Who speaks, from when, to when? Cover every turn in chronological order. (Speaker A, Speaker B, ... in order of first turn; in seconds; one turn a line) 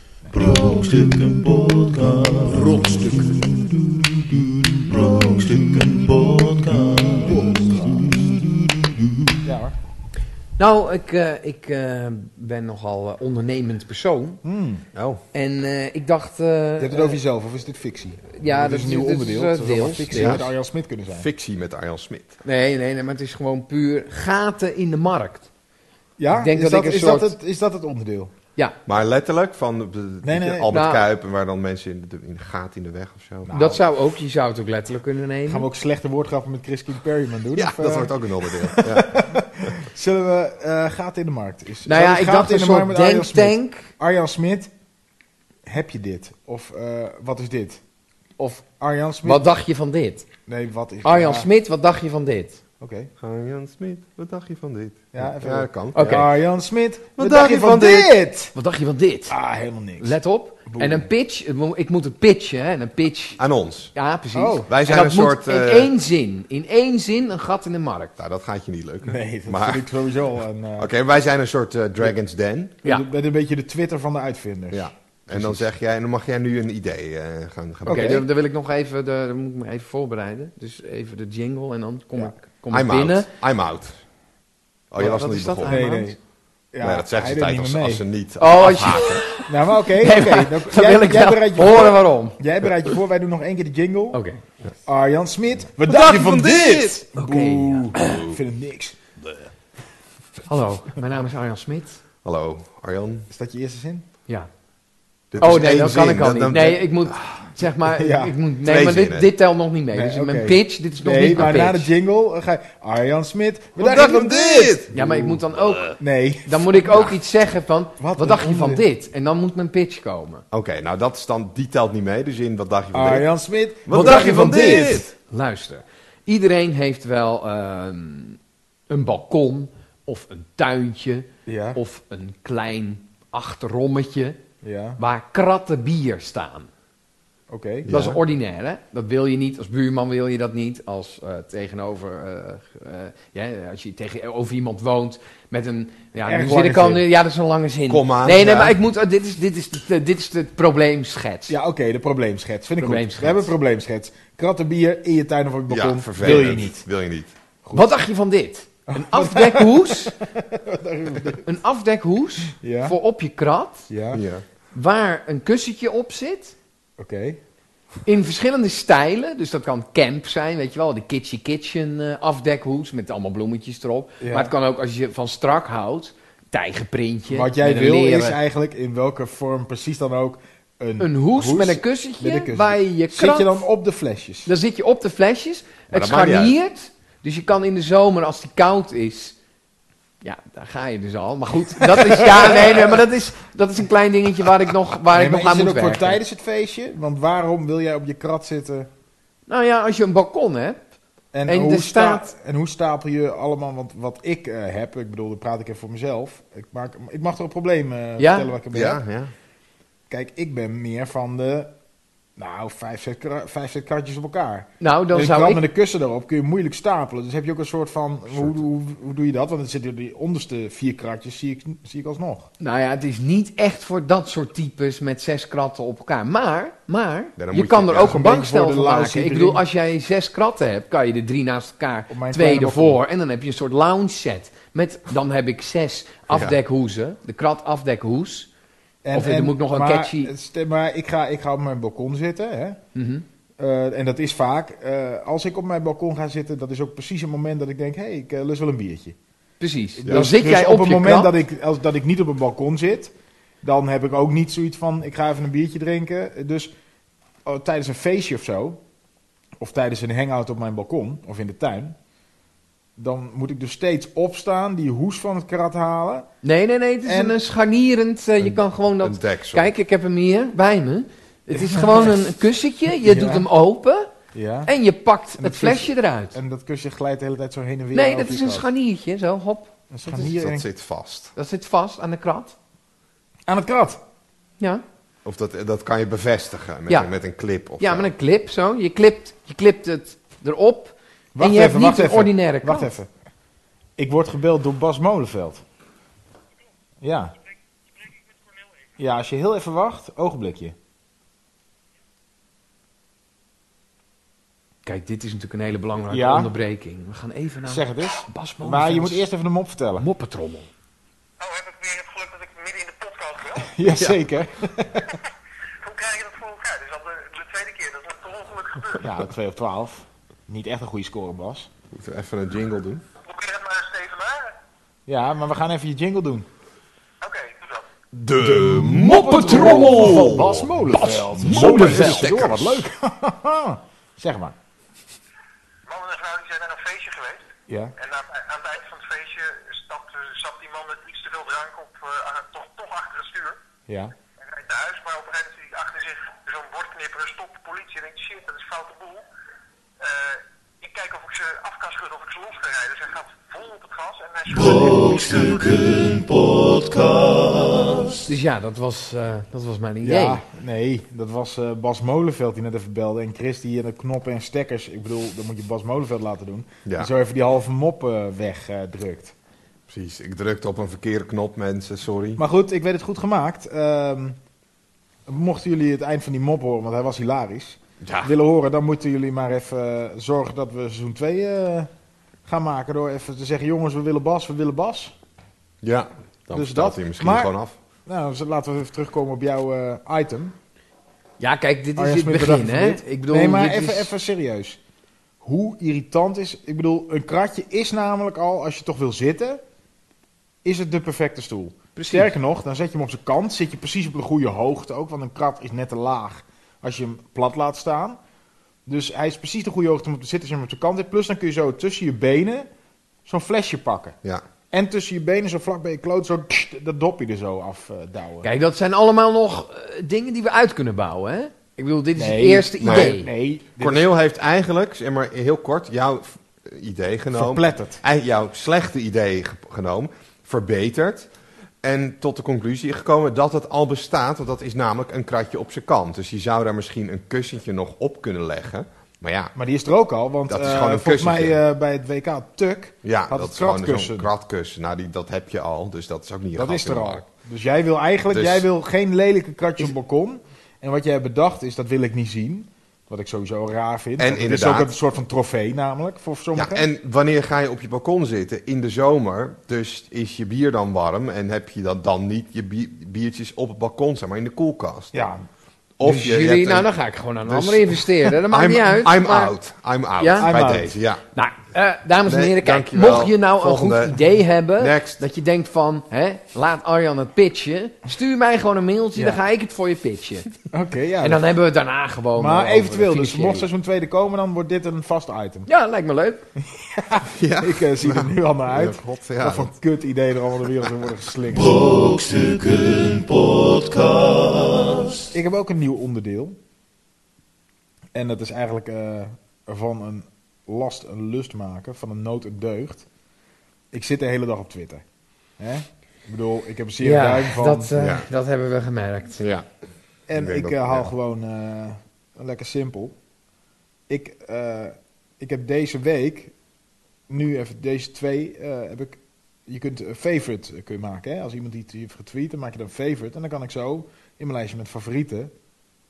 Speaker A: 0.3-9.4
Speaker B: 2.8-3.3
Speaker B: 7.2-8.1
Speaker B: 9.4-9.8
Speaker C: 10.6-14.4
Speaker B: 14.4-14.8
Speaker D: 14.9-15.2
Speaker C: 15.3-17.2
Speaker B: 16.8-21.3
Speaker C: 18.3-20.5
Speaker D: 20.1-20.5
Speaker D: 21.1-22.4
Speaker C: 22.4-25.5
Speaker B: 26.2-28.3
Speaker C: 26.3-27.3
Speaker D: 28.9-33.5
Speaker B: 30.2-30.7
Speaker C: 30.7-31.0
Speaker B: 33.4-33.8
Speaker C: 33.5-35.6
Speaker B: 35.5-44.7
Speaker D: 37.5-39.1
Speaker C: 41.9-43.9
Speaker B: 45.6-47.8
Speaker C: 48.4-48.6
Speaker B: 48.8-49.4
Speaker C: 49.2-50.3
Speaker B: 50.5-51.5
Speaker C: 51.0-52.6
Speaker B: 52.8-53.1
Speaker D: 53.2-56.3
Speaker B: 55.1-58.5
Speaker C: 55.9-56.3
Speaker D: 57.2-58.1
Speaker C: 58.5-59.3
Speaker B: 59.3-61.1
Speaker C: 60.0-63.4
Speaker D: 63.4-63.9
Speaker C: 63.9-68.1
Speaker B: 64.3-64.7
Speaker D: 64.7-65.9
Speaker D: 68.2-69.9
Speaker B: 69.0-70.9
Speaker D: 70.8-72.8
Speaker B: 72.8-75.6
Speaker D: 74.7-78.2
Speaker B: 77.8-78.2
Speaker C: 77.8-83.3
Speaker D: 82.7-84.0
Speaker D: 84.9-85.8
Speaker C: 85.0-86.2
Speaker B: 85.6-86.2
Speaker B: 86.7-88.0
Speaker D: 86.8-89.2
Speaker C: 88.4-92.4
Speaker B: 89.4-94.2
Speaker C: 94.1-94.4
Speaker B: 94.8-98.9
Speaker D: 95.9-97.0
Speaker C: 97.1-98.2
Speaker D: 98.0-98.4
Speaker C: 100.5-102.0
Speaker D: 102.2-103.3
Speaker B: 103.3-104.0
Speaker D: 105.3-107.5
Speaker C: 105.4-111.9
Speaker B: 107.9-108.4
Speaker D: 108.6-109.3
Speaker B: 109.9-114.9
Speaker D: 113.8-115.9
Speaker C: 114.9-120.4
Speaker B: 116.0-117.1
Speaker B: 118.0-118.8
Speaker D: 120.5-123.3
Speaker B: 122.9-125.0
Speaker D: 123.9-125.1
Speaker C: 123.9-128.4
Speaker C: 128.9-134.4
Speaker B: 131.4-131.8
Speaker B: 134.6-135.0
Speaker C: 135.0-136.7
Speaker B: 137.5-137.9
Speaker D: 137.8-138.2
Speaker C: 137.9-151.5
Speaker B: 146.2-147.0
Speaker D: 147.9-148.8
Speaker B: 151.5-156.8
Speaker C: 152.8-153.5
Speaker D: 155.7-157.3
Speaker C: 157.7-160.2
Speaker B: 158.9-161.5
Speaker C: 161.4-163.9
Speaker B: 162.5-162.9
Speaker B: 163.9-164.2
Speaker D: 164.1-164.4
Speaker C: 164.7-166.5
Speaker B: 167.0-167.4
Speaker C: 168.1-178.4
Speaker B: 174.2-174.5
Speaker B: 177.3-184.5
Speaker C: 181.0-183.6
Speaker C: 184.4-189.3
Speaker D: 185.9-186.6
Speaker C: 190.2-196.2
Speaker B: 191.9-192.8
Speaker B: 195.1-198.9
Speaker C: 199.5-200.8
Speaker B: 201.3-209.0
Speaker C: 201.5-202.3
Speaker C: 208.2-208.5
Speaker D: 208.7-209.3
Speaker B: 210.1-211.7
Speaker B: 212.4-222.5
Speaker C: 214.8-215.6
Speaker D: 218.3-218.6
Speaker C: 222.6-238.5
Speaker D: 227.4-228.2
Speaker B: 228.0-229.6
Speaker B: 232.1-233.0
Speaker D: 236.3-236.6
Speaker B: 239.0-242.8
Speaker C: 239.1-240.3
Speaker C: 242.9-243.2
Speaker B: 243.6-249.2
Speaker C: 249.6-251.3
Speaker B: 250.0-256.7
Speaker B: 257.4-258.8
Speaker B: 259.6-261.9
Speaker B: 263.0-266.3
Speaker C: 266.4-274.1
Speaker B: 267.0-267.4
Speaker D: 268.4-269.7
Speaker B: 271.5-272.1
Speaker B: 273.0-273.4
Speaker B: 274.3-274.7
Speaker C: 274.6-276.3
Speaker B: 275.4-278.6
Speaker C: 277.9-279.7
Speaker B: 279.9-280.6
Speaker D: 280.1-281.3
Speaker C: 281.3-282.5
Speaker B: 283.5-284.0
Speaker D: 285.2-288.1
Speaker C: 287.8-292.9
Speaker B: 291.3-293.1
Speaker B: 294.0-295.6
Speaker B: 297.0-297.3
Speaker B: 299.0-300.7
Speaker C: 304.9-309.2
Speaker B: 306.1-306.5
Speaker B: 307.7-310.1
Speaker C: 310.0-310.7
Speaker E: 311.4-313.8
Speaker B: 313.7-315.1
Speaker E: 315.8-319.1
Speaker B: 319.0-321.7
Speaker D: 321.9-323.0
Speaker E: 323.2-324.5
Speaker B: 325.1-326.5
Speaker E: 327.2-327.9
Speaker D: 328.1-332.9
Speaker B: 328.4-334.5
Speaker C: 329.0-332.3
Speaker E: 335.9-343.6
Speaker B: 337.7-337.9
Speaker B: 343.9-344.1
Speaker E: 344.4-349.2
Speaker E: 350.0-355.7
Speaker A: 354.5-358.2
Speaker C: 358.2-360.4
Speaker B: 360.0-369.3
Speaker D: 369.9-372.4
Speaker B: 372.4-374.4
Speaker B: 375.3-381.9
Speaker D: 378.0-378.3
Speaker B: 382.4-385.1
Speaker D: 385.8-387.7
Speaker B: 386.5-387.5
Speaker B: 388.1-390.5
Speaker C: 391.4-394.1
Speaker B: 392.0-394.8
Speaker B: 395.4-399.6
Speaker B: 400.6-408.2
Speaker C: 401.9-402.3
Speaker B: 408.9-412.7
Speaker B: 413.2-414.2
Speaker B: 414.7-418.5
Speaker C: 418.4-423.3
Speaker B: 422.1-424.1
Speaker D: 422.8-423.2
Speaker D: 423.8-431.3
Speaker B: 427.3-428.0
Speaker D: 431.8-439.5
Speaker B: 439.5-444.3
Speaker D: 440.5-441.6
Speaker D: 443.0-447.2
Speaker B: 446.6-456.8
Speaker D: 448.3-448.6
Speaker D: 454.2-454.9
Speaker D: 456.6-465.2
Speaker B: 465.1-465.4
Speaker D: 466.0-466.9
Speaker C: 466.0-469.5
Speaker D: 467.4-471.2
Speaker C: 470.2-470.5
Speaker B: 470.4-470.9
Speaker C: 471.3-480.5
Speaker D: 472.2-474.2
Speaker D: 474.8-475.2
Speaker B: 480.7-481.5
Speaker C: 481.2-483.7
Speaker B: 482.4-485.7
Speaker C: 485.6-486.5
Speaker B: 486.7-491.7
Speaker D: 487.3-489.7
Speaker A: 491.5-495.2
Speaker B: 495.3-496.6
Speaker B: 498.1-503.1
Speaker B: 503.9-505.0
Speaker B: 505.6-507.9
Speaker C: 507.0-509.4
Speaker D: 508.0-508.3
Speaker D: 509.4-509.7
Speaker B: 510.3-513.1
Speaker D: 510.3-511.1
Speaker B: 514.1-516.5
Speaker B: 517.3-525.5